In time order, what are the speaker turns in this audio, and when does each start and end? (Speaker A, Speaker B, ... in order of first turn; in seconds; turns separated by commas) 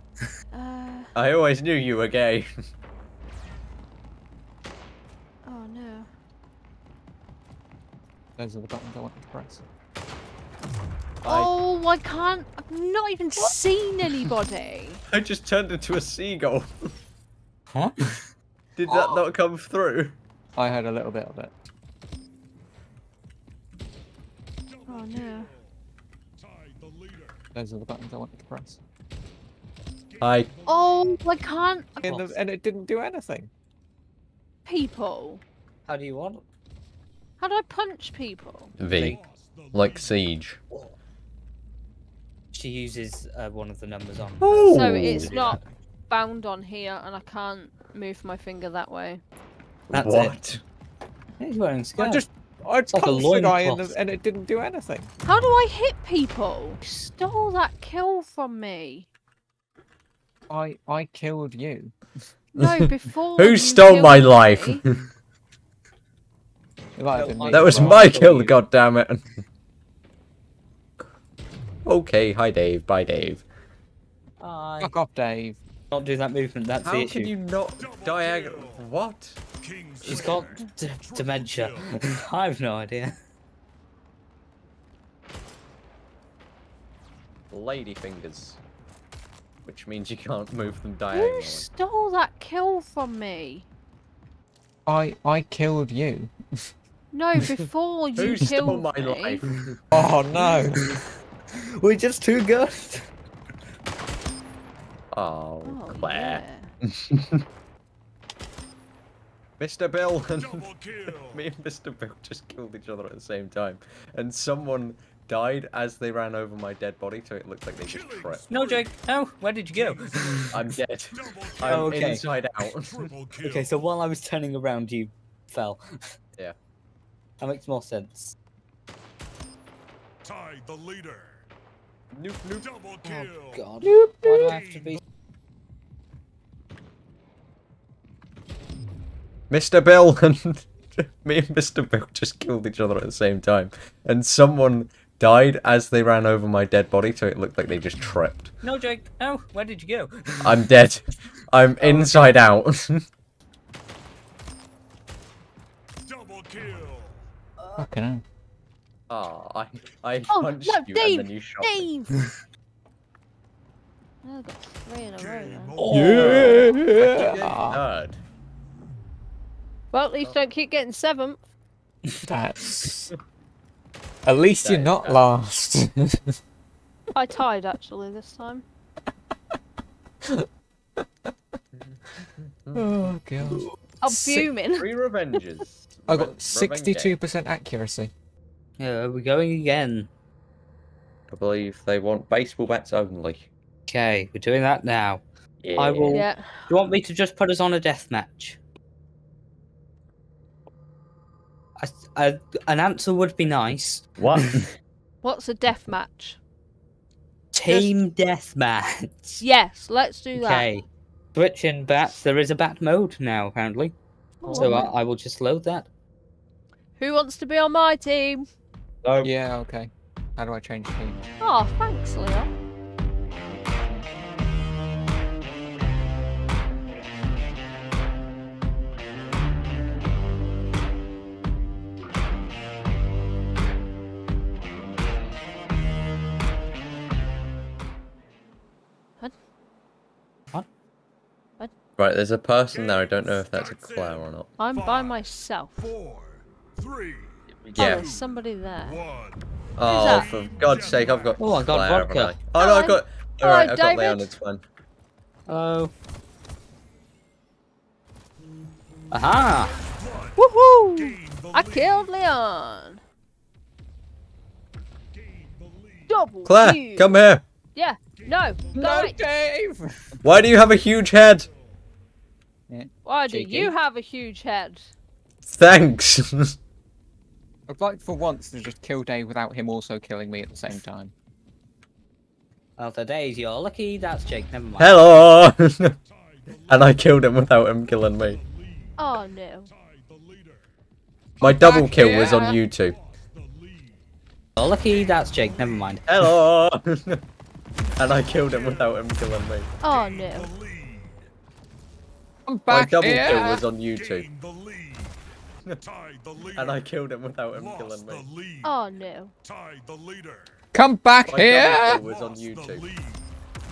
Speaker A: 0.5-1.1, Speaker B: 1.1-2.5, Speaker A: 5.4-6.1, Speaker C: 8.4-9.7, Speaker A: 11.2-15.0, Speaker B: 11.2-11.5, Speaker B: 15.1-16.9, Speaker D: 17.7-18.1, Speaker B: 18.8-20.2, Speaker D: 18.9-19.2, Speaker C: 20.6-21.5, Speaker A: 24.9-25.6, Speaker C: 27.5-28.8, Speaker B: 30.2-30.5, Speaker A: 30.6-32.1, Speaker C: 32.0-33.5, Speaker D: 32.0-32.3, Speaker A: 34.6-35.4, Speaker D: 35.9-36.4, Speaker A: 37.4-38.8, Speaker B: 38.8-39.2, Speaker D: 38.9-39.2, Speaker B: 39.7-40.6, Speaker D: 42.5-45.7, Speaker B: 44.4-45.3, Speaker A: 44.7-49.2, Speaker B: 49.9-50.6, Speaker D: 49.9-50.3, Speaker D: 51.4-52.2, Speaker C: 52.0-55.1, Speaker D: 52.9-53.9, Speaker A: 55.2-59.1, Speaker C: 60.5-61.9, Speaker A: 62.5-64.8, Speaker B: 63.4-64.8, Speaker C: 67.0-68.1, Speaker D: 67.1-68.6, Speaker B: 67.5-69.2, Speaker B: 71.8-73.4, Speaker D: 74.4-74.9, Speaker C: 74.8-75.6, Speaker D: 75.9-77.3, Speaker B: 76.8-79.4, Speaker E: 79.7-80.0, Speaker D: 80.0-83.1, Speaker B: 87.5-88.6, Speaker B: 89.6-91.7, Speaker A: 91.1-93.7, Speaker C: 94.8-96.3, Speaker A: 97.1-99.4, Speaker B: 98.2-99.7, Speaker C: 99.9-100.8, Speaker D: 100.4-101.0, Speaker D: 101.8-103.1, Speaker B: 105.1-107.4, Speaker A: 105.6-106.7, Speaker B: 109.6-118.5, Speaker D: 118.5-120.6, Speaker B: 120.5-123.1, Speaker D: 121.6-122.2, Speaker D: 123.4-125.8, Speaker D: 127.4-128.3, Speaker E: 130.3-131.3, Speaker B: 132.1-132.7, Speaker D: 133.0-135.0, Speaker C: 133.8-134.6, Speaker B: 139.5-148.5, Speaker D: 148.6-150.6, Speaker B: 150.4-153.0, Speaker D: 151.8-152.2, Speaker E: 156.2-157.1, Speaker D: 157.6-157.8, Speaker C: 157.8-158.2, Speaker B: 159.1-161.9, Speaker A: 160.3-162.1, Speaker A: 164.2-165.9, Speaker D: 165.8-166.7, Speaker C: 165.9-167.8, Speaker B: 166.2-168.2, Speaker A: 169.9-171.4, Speaker C: 172.2-173.1, Speaker C: 174.2-176.3, Speaker B: 174.6-175.2, Speaker A: 177.1-178.6, Speaker B: 181.7-183.1, Speaker C: 182.7-184.5, Speaker A: 184.0-184.8, Speaker B: 184.8-187.2, Speaker C: 186.1-188.1, Speaker D: 188.8-190.1, Speaker B: 191.3-193.5, Speaker D: 193.9-195.2, Speaker B: 195.6-196.2, Speaker D: 195.8-198.6, Speaker A: 196.1-196.7, Speaker D: 201.8-204.3, Speaker B: 204.2-204.7, Speaker A: 205.2-206.4, Speaker D: 207.5-209.4, Speaker A: 207.6-207.9, Speaker A: 209.4-210.7, Speaker D: 210.3-213.9, Speaker A: 214.4-214.9, Speaker C: 214.4-214.9, Speaker D: 214.5-215.9, Speaker A: 217.0-218.4, Speaker D: 219.0-219.3, Speaker C: 219.2-221.2, Speaker A: 221.4-222.5, Speaker B: 242.0-244.5, Speaker A: 244.6-245.9, Speaker E: 246.0-246.2, Speaker E: 246.8-247.3, Speaker B: 247.6-248.1, Speaker A: 247.7-249.0, Speaker B: 249.8-254.6, Speaker A: 249.8-250.3, Speaker D: 251.4-252.4, Speaker A: 252.5-254.3, Speaker D: 255.5-255.9, Speaker D: 259.1-259.8, Speaker A: 260.4-263.0, Speaker A: 266.1-267.2, Speaker B: 266.4-267.4, Speaker A: 267.7-269.2, Speaker C: 268.7-270.1, Speaker B: 270.2-271.5, Speaker A: 273.0-274.9, Speaker D: 273.3-273.7, Speaker B: 275.4-276.5, Speaker C: 277.7-281.1, Speaker D: 282.8-284.9, Speaker B: 284.8-285.9, Speaker B: 286.6-288.4, Speaker A: 289.0-289.7, Speaker E: 289.9-290.5, Speaker B: 291.4-293.0, Speaker A: 291.4-292.6, Speaker D: 294.6-296.0, Speaker B: 296.1-297.2, Speaker B: 297.9-299.7, Speaker A: 299.8-300.5, Speaker E: 300.5-301.2, Speaker C: 302.5-303.6, Speaker B: 302.7-304.3, Speaker E: 304.3-305.1, Speaker E: 305.9-306.6, Speaker B: 306.5-308.3, Speaker A: 308.6-309.3, Speaker E: 309.5-310.4, Speaker C: 310.7-312.0, Speaker B: 311.3-312.9, Speaker E: 312.9-313.2